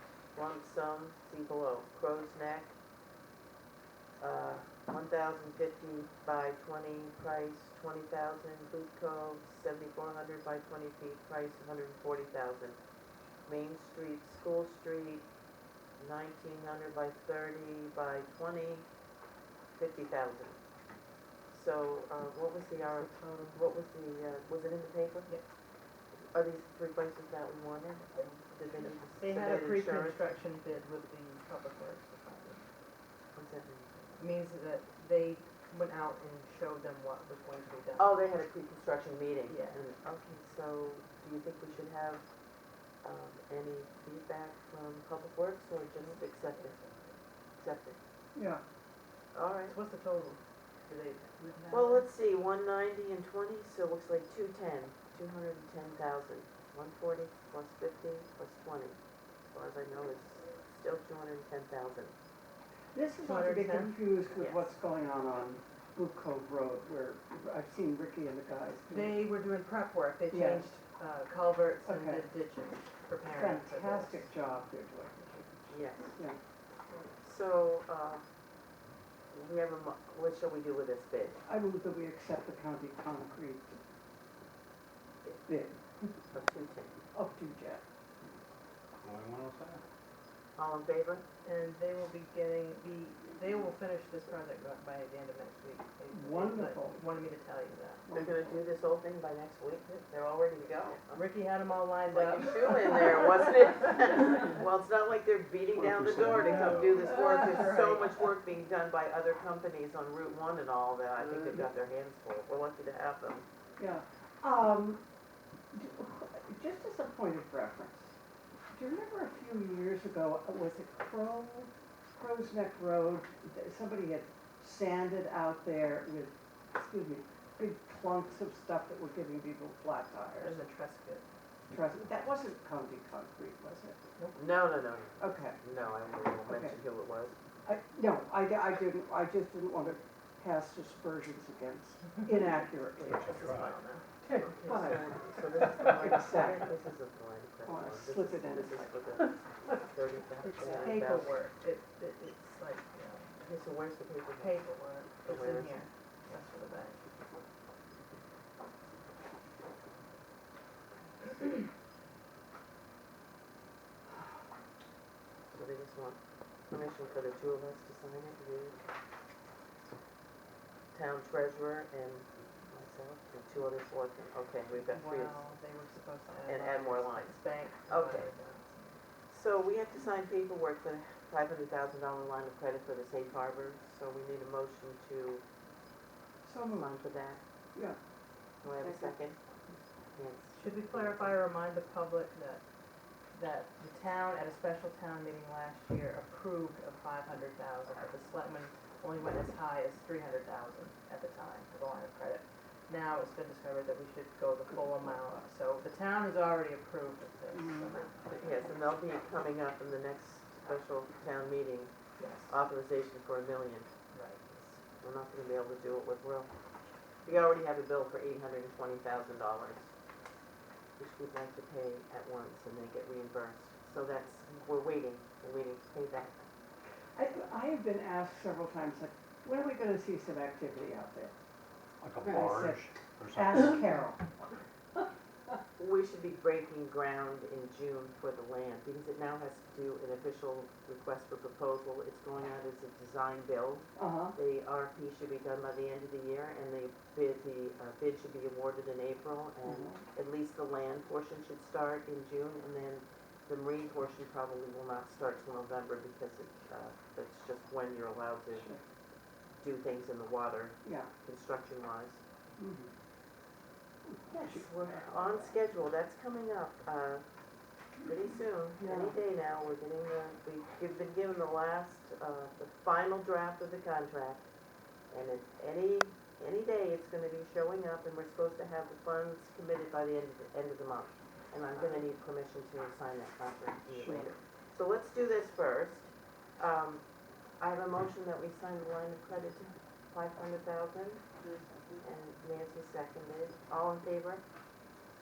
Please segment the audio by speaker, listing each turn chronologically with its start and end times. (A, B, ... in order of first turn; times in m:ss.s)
0:00.3-0:02.8 A
0:04.2-0:12.8 A
0:13.4-0:15.3 A
0:16.0-0:18.9 A
0:19.7-0:20.6 A
0:21.5-0:25.5 A
0:26.1-0:30.3 A
0:28.8-0:32.7 B
0:33.3-0:34.1 A
0:34.2-0:38.2 B
0:38.0-0:42.2 A
0:39.5-0:39.8 B
0:43.0-0:46.8 A
0:46.0-0:47.2 B
0:47.6-0:48.0 A
0:48.4-0:48.6 C
0:49.3-0:49.8 A
0:49.7-0:52.1 B
0:51.7-0:59.0 A
0:59.5-1:02.2 A
1:02.9-1:09.2 C
1:03.2-1:04.0 B
1:04.4-1:04.7 A
1:08.9-1:14.3 B
1:10.3-1:10.7 C
1:11.9-1:12.3 C
1:13.3-1:15.5 C
1:15.7-1:16.2 A
1:17.2-1:18.2 A
1:19.3-1:21.4 A
1:21.5-1:23.8 C
1:25.5-1:26.1 C
1:26.3-1:26.9 A
1:27.1-1:27.8 C
1:29.0-1:29.8 D
1:30.6-1:31.2 A
1:31.4-1:38.1 B
1:36.1-1:37.0 C
1:38.1-1:38.6 C
1:38.1-1:41.2 A
1:41.1-1:43.8 B
1:42.1-1:53.5 A
1:45.7-1:47.1 D
1:46.2-1:47.7 C
1:47.0-1:48.3 B
1:53.8-1:55.0 C
1:55.7-1:58.1 C
1:58.7-2:10.6 C
2:10.4-2:11.2 B
2:11.7-2:14.0 C
2:14.4-2:17.4 A
2:15.2-2:15.6 C
2:16.5-2:16.8 C
2:17.7-2:23.5 C
2:23.1-2:23.8 D
2:23.3-2:24.1 B
2:24.2-2:26.7 C
2:24.3-2:31.3 A
2:27.7-2:28.9 C
2:30.4-2:33.4 B
2:33.4-2:34.6 A
2:34.4-2:37.1 B
2:35.2-2:35.8 A
2:45.5-2:48.8 A
2:50.9-2:55.4 A
2:54.8-2:59.0 B
2:56.5-2:58.3 A
2:59.3-3:05.4 A
3:06.4-3:06.9 C
3:06.7-3:07.4 A
3:08.6-3:09.4 A
3:08.8-3:09.2 C
3:10.2-3:11.4 A
3:10.6-3:12.6 B
3:13.3-3:28.6 B
3:27.5-3:28.0 C
3:28.4-3:33.9 A
3:32.2-3:32.6 B
3:34.1-3:34.8 B
3:35.0-3:36.5 A
3:37.2-3:39.9 A
3:41.0-3:46.4 A
3:47.2-3:51.3 C
3:52.0-3:53.9 D
3:52.2-3:54.4 C
3:55.8-4:18.7 A
4:04.0-4:04.4 C
4:09.6-4:10.0 C
4:18.6-4:18.8 C
4:19.6-4:22.2 A
4:20.8-4:21.1 C
4:22.6-4:22.9 C
4:24.1-4:25.6 C
4:24.3-4:27.2 A
4:28.0-4:34.4 A
4:28.8-4:29.2 C
4:35.1-4:47.0 A
4:41.8-4:42.0 B
4:43.9-4:44.3 C
4:47.6-4:51.2 A
4:52.0-4:54.4 A